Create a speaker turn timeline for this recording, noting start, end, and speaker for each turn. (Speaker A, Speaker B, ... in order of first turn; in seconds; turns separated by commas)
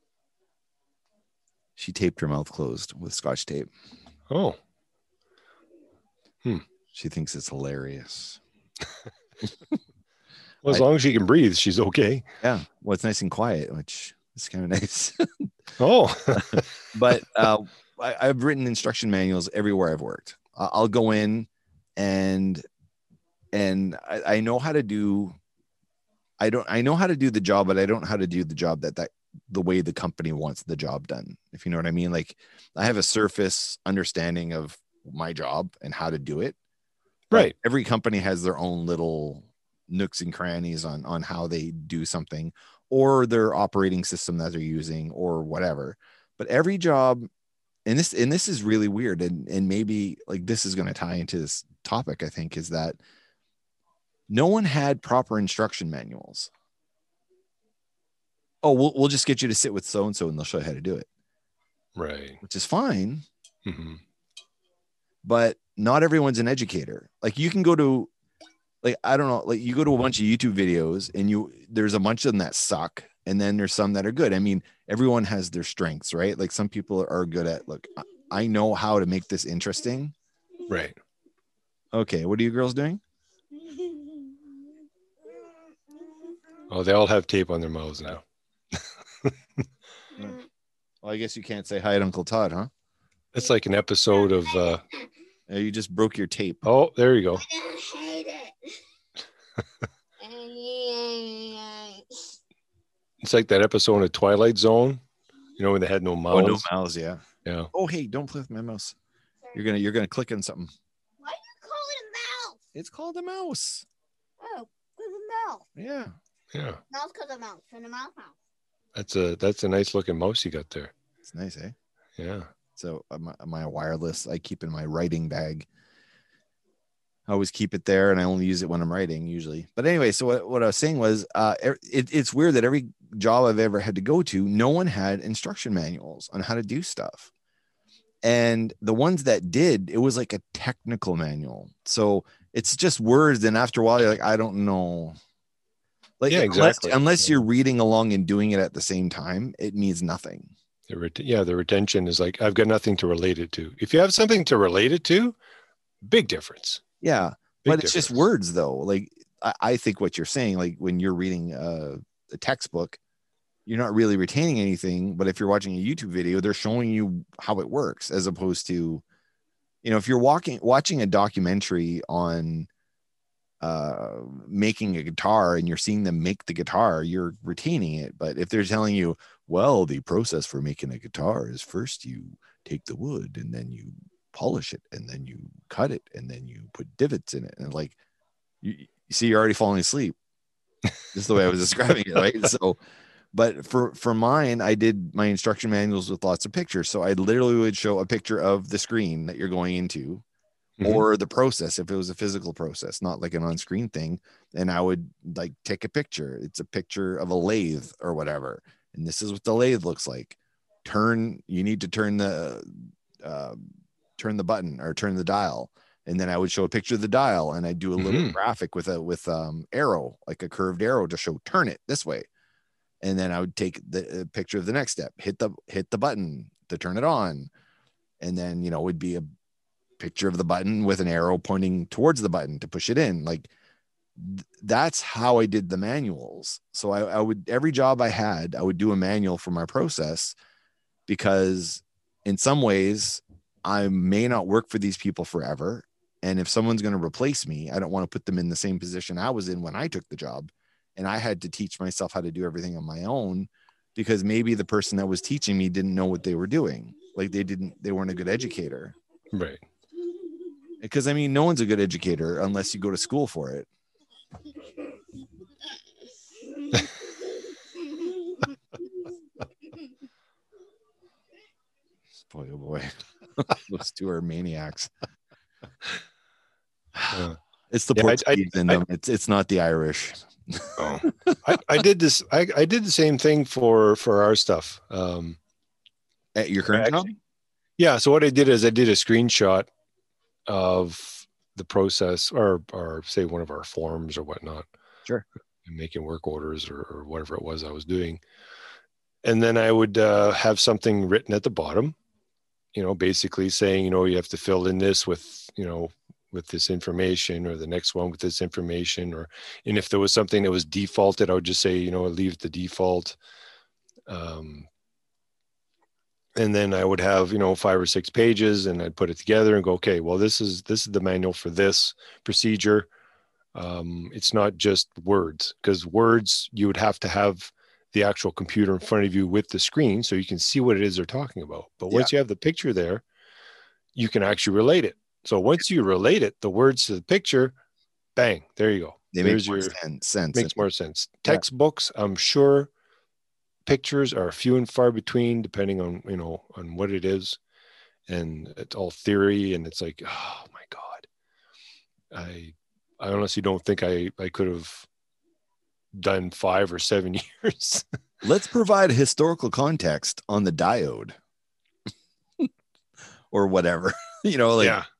Speaker A: 1.8-3.7, Speaker B: 4.3-4.6, Speaker A: 6.9-8.4, Speaker B: 10.6-12.3, Speaker A: 12.4-15.5, Speaker B: 15.8-16.9, Speaker A: 16.3-22.6, Speaker A: 23.5-25.4, Speaker A: 26.4-36.5, Speaker A: 37.3-47.3, Speaker A: 47.9-53.0, Speaker A: 54.3-56.5, Speaker A: 58.6-61.1, Speaker B: 62.0-62.4, Speaker A: 62.4-63.2, Speaker B: 63.6-64.0, Speaker A: 65.2-68.1, Speaker A: 68.8-80.1, Speaker B: 80.7-81.0, Speaker A: 81.9-83.0, Speaker C: 83.5-84.7, Speaker B: 86.7-88.2, Speaker B: 88.8-89.3, Speaker C: 90.2-90.4, Speaker A: 91.0-92.7, Speaker B: 93.3-94.8, Speaker C: 94.2-94.8, Speaker A: 95.5-96.6, Speaker B: 96.6-97.5, Speaker C: 97.4-98.5, Speaker C: 100.2-102.2, Speaker B: 103.2-105.0, Speaker B: 105.6-106.7, Speaker A: 106.3-109.0, Speaker B: 107.4-107.7, Speaker A: 109.5-110.7, Speaker C: 111.2-112.6, Speaker A: 112.7-113.8, Speaker C: 114.4-115.7, Speaker A: 115.8-116.1, Speaker B: 116.5-116.8, Speaker C: 116.9-118.3, Speaker B: 118.9-120.9, Speaker A: 121.2-121.7, Speaker B: 122.2-122.5, Speaker A: 122.8-125.7, Speaker A: 127.3-137.3, Speaker A: 138.2-145.2, Speaker A: 146.2-150.5, Speaker B: 146.3-147.2, Speaker B: 150.9-155.4, Speaker B: 156.0-156.8, Speaker A: 157.0-163.0, Speaker B: 157.6-158.1, Speaker A: 163.7-169.0, Speaker A: 169.8-172.7, Speaker A: 173.6-188.0, Speaker A: 188.6-190.1, Speaker A: 191.1-192.8, Speaker A: 193.3-200.2, Speaker B: 200.8-201.0, Speaker A: 200.8-213.7, Speaker A: 214.2-222.3, Speaker B: 218.0-218.3, Speaker A: 223.0-227.5, Speaker A: 228.2-229.2, Speaker A: 230.0-233.5, Speaker A: 234.2-240.3, Speaker A: 241.1-258.9, Speaker B: 259.3-259.6, Speaker A: 260.8-263.7, Speaker C: 266.6-268.5, Speaker A: 272.3-274.9, Speaker A: 276.9-281.4, Speaker B: 277.1-277.4, Speaker B: 277.9-278.8, Speaker B: 280.8-285.4, Speaker A: 286.3-287.1, Speaker B: 286.7-287.1, Speaker B: 287.8-289.7, Speaker B: 290.5-294.7, Speaker B: 295.6-298.2, Speaker B: 299.2-301.9, Speaker B: 302.7-313.2, Speaker B: 314.1-314.7, Speaker B: 316.4-322.9, Speaker B: 323.5-333.0, Speaker B: 333.9-337.5, Speaker B: 338.1-339.8, Speaker A: 339.1-340.6, Speaker B: 340.3-342.7, Speaker B: 343.6-347.4, Speaker B: 348.1-351.1, Speaker B: 352.1-354.9, Speaker B: 355.9-357.8, Speaker A: 358.2-361.1, Speaker A: 363.3-364.8, Speaker B: 364.6-364.9